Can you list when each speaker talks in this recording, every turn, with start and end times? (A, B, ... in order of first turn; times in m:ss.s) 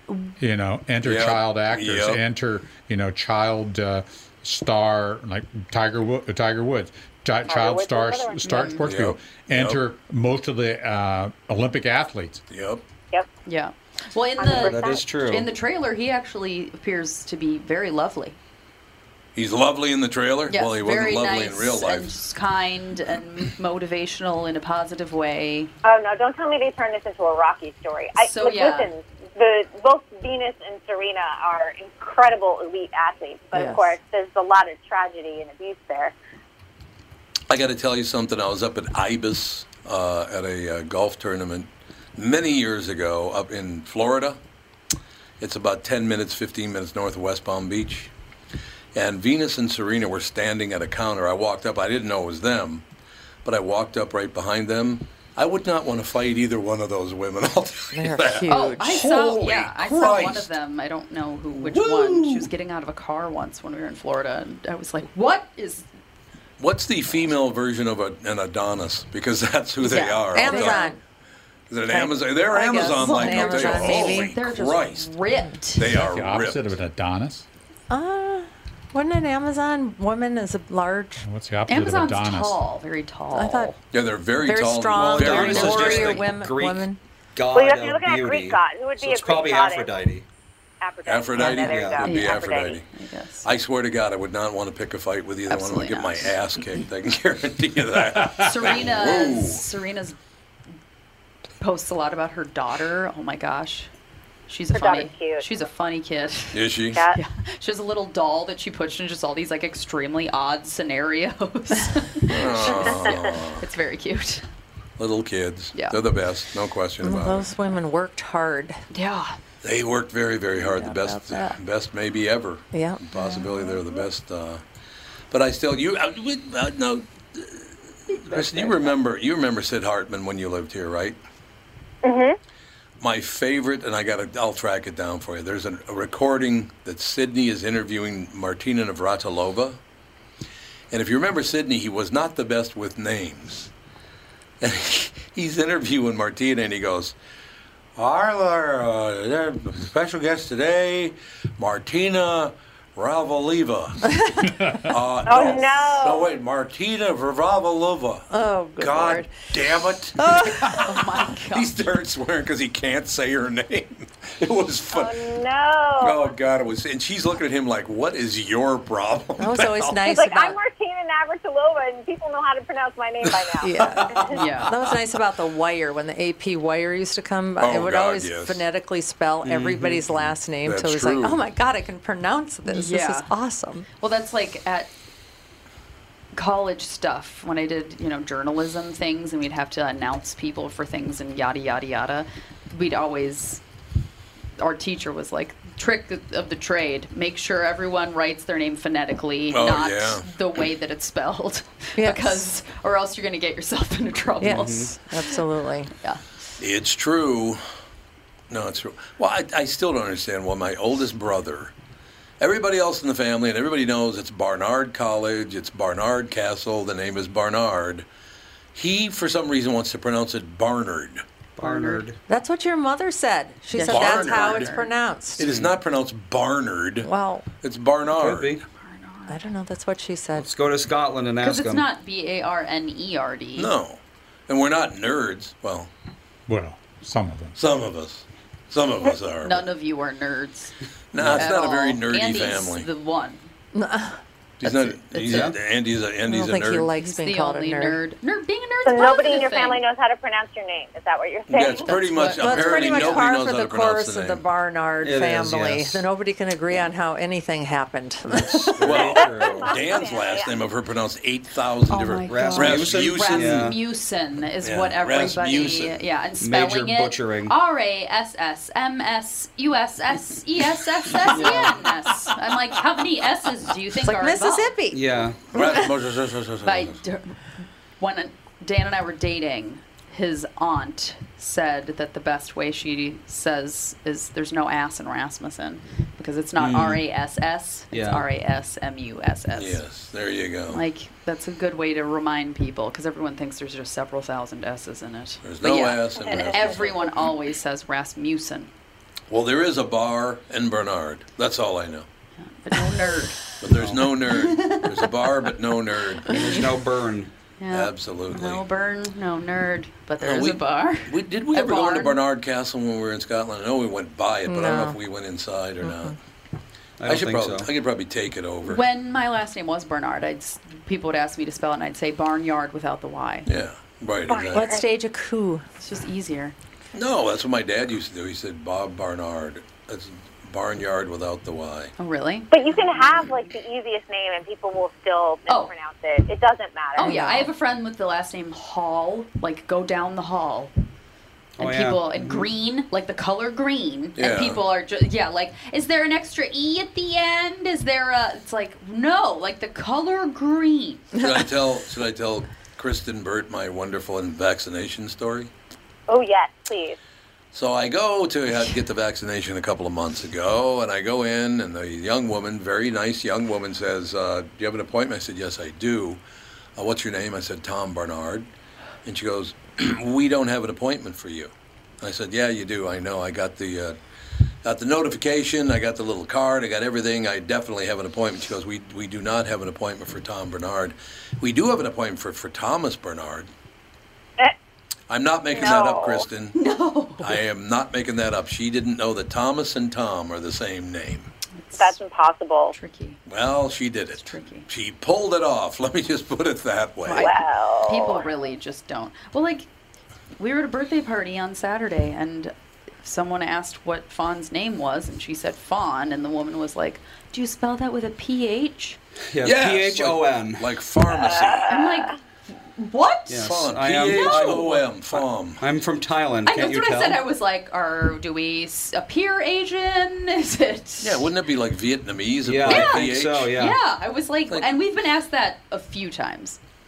0:00.4-0:12.4 A
0:01.0-0:02.2 B
0:07.5-0:08.7 C
0:08.4-0:08.8 D
0:08.8-0:09.8 B
0:12.5-0:12.8 B
0:13.4-0:18.4 D
0:14.4-0:15.0 C
0:14.5-0:15.5 E
0:19.3-0:22.1 B
0:20.5-0:25.7 D
0:25.8-0:36.1 C
0:28.2-0:28.9 D
0:33.6-0:33.8 F
0:37.5-0:44.4 B
0:45.4-0:48.1 B
0:48.9-0:52.8 B
0:53.4-1:00.5 B
0:57.9-0:59.0 F
0:58.5-1:05.8 D
1:01.6-1:02.5 B
1:06.6-1:10.9 B
1:09.8-1:10.9 D
1:10.3-1:11.0 F
1:11.7-1:15.1 B
1:11.9-1:14.3 F
1:13.0-1:15.9 D
1:15.8-1:16.7 B
1:15.9-1:17.4 A
1:17.9-1:21.2 F
1:21.2-1:22.6 A
1:21.7-1:23.7 D
1:23.3-1:23.7 F
1:23.9-1:26.2 B
1:24.4-1:27.0 F
1:25.0-1:30.2 E
1:27.5-1:30.0 C
1:30.8-1:32.8 C
1:31.0-1:32.8 B
1:31.4-1:32.1 E
1:32.0-1:33.4 D
1:33.4-1:39.6 B
1:35.5-1:36.3 D
1:38.4-1:40.2 D
1:41.6-1:43.9 D
1:44.5-1:46.6 D
1:44.7-1:45.4 C
1:46.5-1:47.0 B
1:46.9-1:47.2 C
1:47.1-1:54.4 D
1:52.3-1:53.6 B
1:55.0-1:57.5 B
1:57.0-1:58.8 F
1:58.9-1:59.4 D
1:59.6-2:04.6 B
2:00.6-2:01.6 F
2:02.7-2:03.8 F
2:05.3-2:07.7 B
2:08.2-2:11.2 B
2:12.0-2:12.4 C
2:13.0-2:19.8 B
2:20.9-2:23.7 B
2:24.6-2:27.2 B
2:28.0-2:34.1 B
2:34.8-2:41.0 B
2:35.2-2:36.3 C
2:38.3-2:39.4 F
2:40.2-2:40.9 F
2:40.8-2:41.7 D
2:41.5-2:45.2 B
2:44.9-2:46.3 C
2:46.0-2:50.1 B
2:49.4-2:50.6 F
2:50.1-2:54.4 C
2:53.6-3:03.8 F
2:53.8-2:54.2 B
2:54.3-2:54.7 D
2:57.6-2:58.6 B
2:59.4-3:00.1 E
3:00.6-3:01.4 B
3:02.6-3:03.3 D
3:04.0-3:04.9 D
3:06.3-3:13.6 D
3:14.6-3:25.4 D
3:19.5-3:20.2 B
3:22.0-3:22.4 F
3:24.4-3:25.9 F
3:24.5-3:24.9 E
3:26.6-3:27.6 B
3:28.5-3:31.7 B
3:32.4-3:38.0 B
3:38.7-3:41.2 B
3:41.6-3:42.2 E
3:41.6-3:42.0 D
3:42.3-3:45.4 F
3:43.7-3:44.9 D
3:43.8-3:44.7 B
3:45.4-3:47.1 B
3:47.0-3:47.5 F
3:47.6-3:48.6 B
3:48.1-3:48.6 E
3:48.8-3:49.4 D
3:49.3-3:50.5 F
3:50.4-3:51.8 E
3:51.4-3:53.7 D
3:53.6-3:55.9 B
3:56.5-3:57.5 A
3:57.6-3:59.6 B
3:59.4-4:03.4 D
4:01.1-4:02.9 B
4:01.2-4:01.4 E
4:03.7-4:04.2 F
4:04.6-4:06.9 B
4:05.2-4:05.6 E
4:06.3-4:08.0 F
4:07.0-4:09.8 D
4:08.8-4:11.9 C
4:11.5-4:14.4 B
4:11.8-4:13.2 D
4:12.4-4:19.0 F
4:15.0-4:16.0 E
4:18.3-4:19.7 E
4:18.8-4:23.8 B
4:18.9-4:20.6 C
4:21.9-4:34.7 D
4:22.3-4:23.8 E
4:24.6-4:25.9 B
4:26.4-4:27.5 E
4:31.3-4:31.8 E
4:34.0-4:35.9 F
4:34.9-4:35.4 E
4:35.5-4:37.0 B
4:36.6-4:37.4 D
4:38.0-4:49.8 D
4:46.6-4:47.0 E
4:47.9-4:48.3 E
4:49.5-4:50.8 B
4:50.7-4:58.7 D
4:55.4-4:57.0 B
4:56.3-4:56.9 C
4:59.3-5:02.0 B
5:02.4-5:03.5 D
5:03.6-5:06.4 B
5:03.7-5:04.0 E
5:04.2-5:05.1 D
5:06.3-5:07.3 E
5:07.6-5:12.2 D
5:07.7-5:08.6 B
5:10.2-5:16.2 B
5:14.5-5:15.0 F
5:15.8-5:16.1 F
5:17.0-5:17.7 E
5:17.0-5:18.8 B
5:18.6-5:23.5 D
5:23.4-5:24.7 B
5:24.3-5:24.8 C
5:24.5-5:25.6 F
5:25.8-5:26.5 D
5:26.9-5:31.9 B
5:32.0-5:32.8 D
5:32.5-5:37.2 C
5:37.0-5:40.7 D
5:37.0-5:37.5 F
5:41.6-5:42.5 E
5:41.6-5:51.1 D
5:44.2-5:44.6 B
5:51.2-5:55.5 B
5:56.1-5:57.0 C
5:57.5-6:06.2 B
6:06.8-6:08.5 B
6:09.0-6:14.0 B
6:14.6-6:23.5 B
6:25.1-6:26.6 B
6:25.5-6:26.2 C
6:26.5-6:27.4 D
6:27.2-6:31.3 B
6:31.6-6:32.0 D
6:31.8-6:32.7 C
6:32.7-6:33.2 D
6:33.3-6:37.3 B
6:34.2-6:34.7 D
6:37.0-6:39.7 D
6:37.2-6:38.2 C
6:40.4-6:49.0 D
6:49.3-6:50.7 E
6:49.4-6:51.7 B
6:51.1-6:52.1 C
6:51.7-6:52.2 D
6:52.8-6:54.8 D
6:53.3-6:57.2 E
6:53.4-6:55.6 B
6:56.4-7:01.3 D
7:01.0-7:03.6 B
7:02.4-7:03.8 E
7:02.6-7:06.6 D